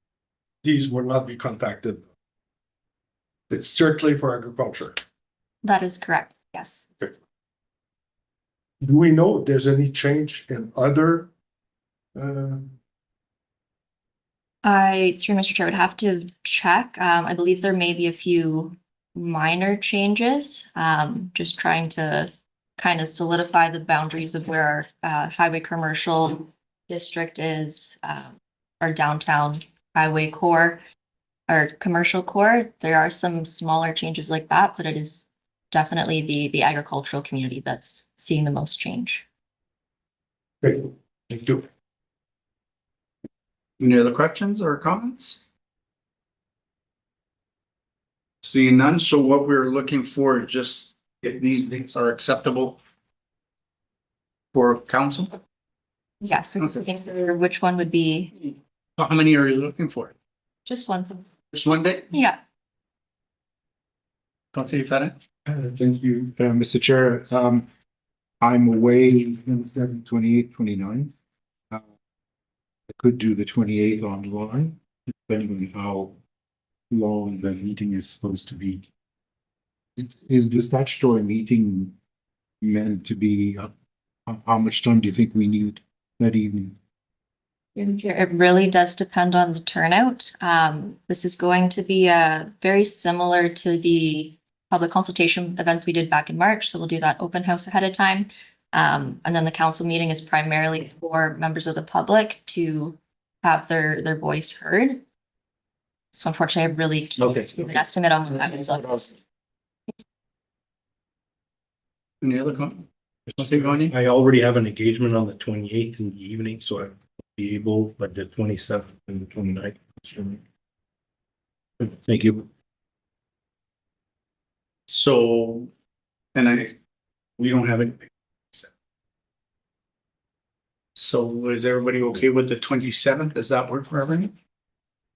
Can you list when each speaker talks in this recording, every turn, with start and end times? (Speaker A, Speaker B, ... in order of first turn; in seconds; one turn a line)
Speaker A: 0.6-2.0
Speaker A: 3.5-5.0
Speaker B: 5.6-6.9
Speaker A: 8.8-11.3
Speaker A: 12.2-12.7
Speaker B: 14.6-30.8
Speaker B: 31.5-39.2
Speaker A: 40.6-41.6
Speaker C: 43.8-45.4
Speaker C: 48.4-52.8
Speaker C: 54.5-55.4
Speaker B: 56.2-58.4
Speaker C: 59.0-60.1
Speaker B: 60.7-61.3
Speaker C: 61.5-62.1
Speaker B: 62.1-62.4
Speaker C: 64.5-65.2
Speaker D: 65.5-67.7
Speaker D: 68.4-71.2
Speaker D: 72.9-76.2
Speaker D: 76.9-78.9
Speaker D: 80.0-82.0
Speaker D: 82.6-83.7
Speaker D: 84.3-86.8
Speaker B: 87.8-105.0
Speaker B: 106.1-109.2
Speaker E: 107.2-107.7
Speaker C: 112.2-114.0
Speaker E: 113.6-120.4
Speaker E: 121.8-122.5
Speaker C: 124.9-125.7
Speaker C: 126.3-126.8
Speaker C: 127.4-128.7
Speaker C: 131.0-134.3